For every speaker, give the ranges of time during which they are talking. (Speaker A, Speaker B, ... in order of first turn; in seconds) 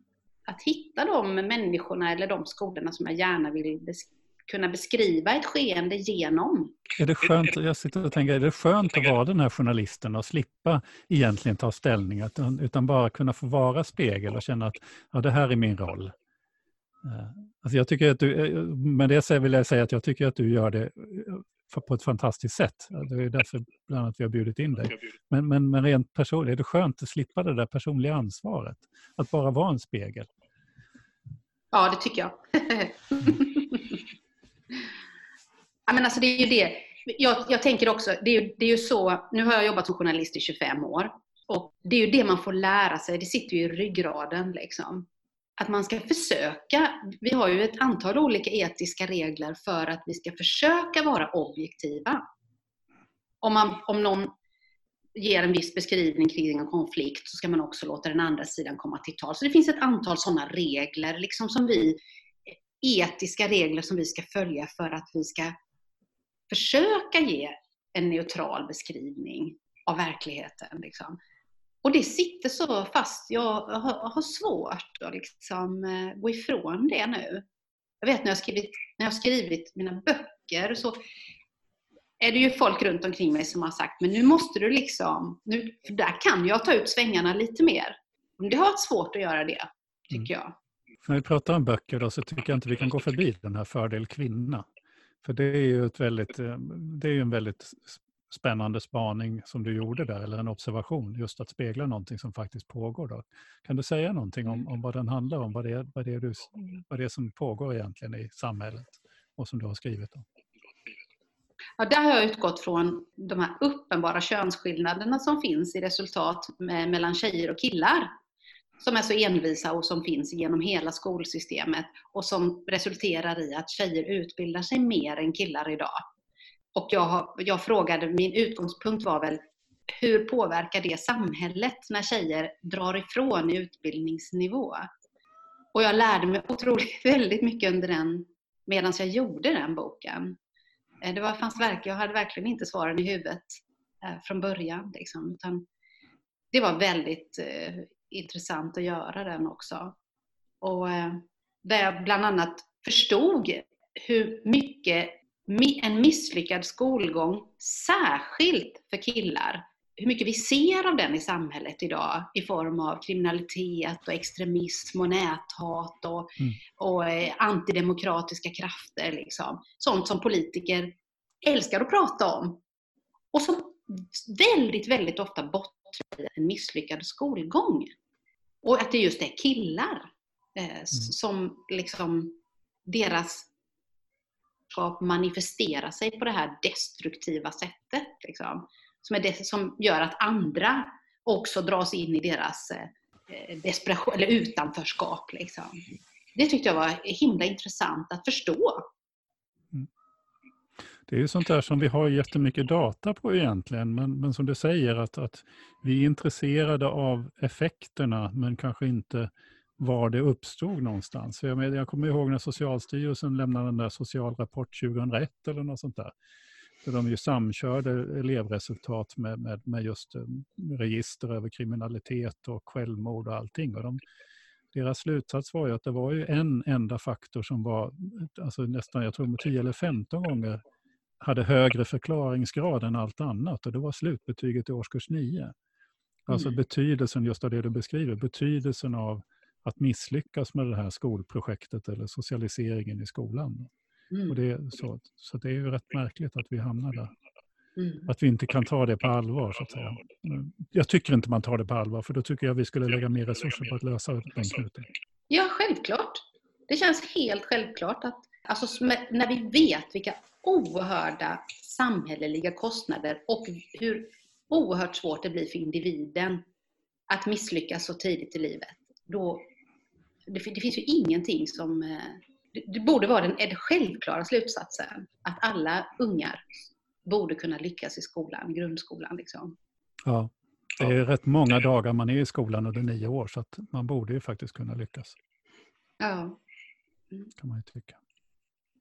Speaker A: 0.5-6.8, 31.7-34.0, 35.9-45.1, 45.6-52.2, 53.4-54.3, 55.1-65.5, 66.5-71.2, 71.8-77.5, 78.0-81.0, 82.2-90.5, 111.8-118.1, 118.8-126.0, 126.8-129.4, 129.9-134.9, 135.7-140.4, 141.0-145.7, 146.5-150.0, 150.6-172.6, 173.3-177.9, 178.6-183.5, 184.7-195.8, 196.3-198.9, 247.8-248.1, 255.3-266.4, 267.1-269.5, 270.3-279.6, 286.0-286.4
Speaker B: 7.0-16.1, 17.0-30.3, 91.0-94.7, 95.2-110.2, 201.1-216.1, 216.8-224.0, 224.7-230.6, 231.2-235.5, 236.3-243.7, 244.3-247.1, 248.1-254.9, 280.1-285.2, 287.4-288.0